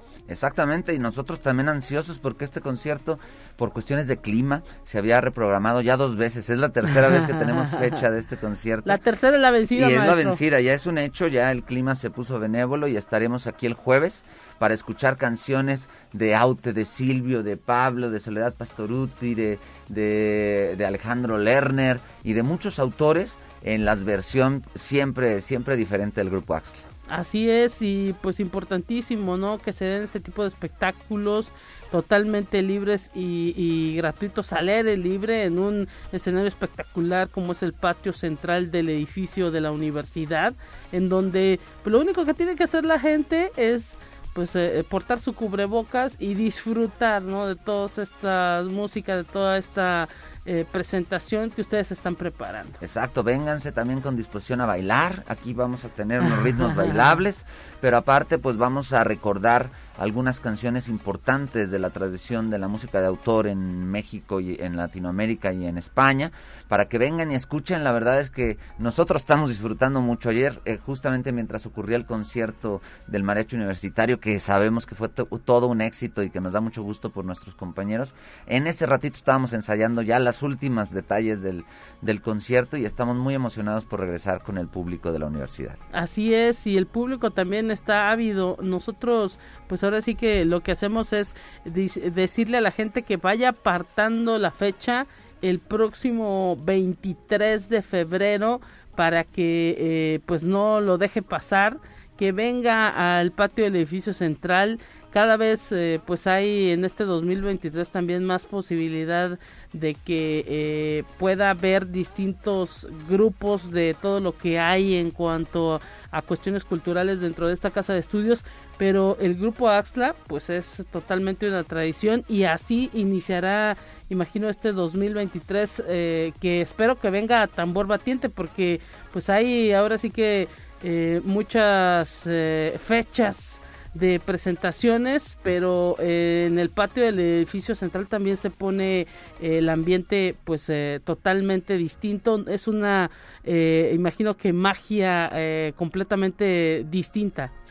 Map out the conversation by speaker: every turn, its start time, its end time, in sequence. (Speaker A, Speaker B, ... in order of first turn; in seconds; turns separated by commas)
Speaker A: 0.3-9.0, Speaker B: 8.8-10.4, Speaker A: 9.7-26.8, Speaker B: 27.1-52.7, Speaker A: 52.8-85.8, Speaker B: 85.9-147.5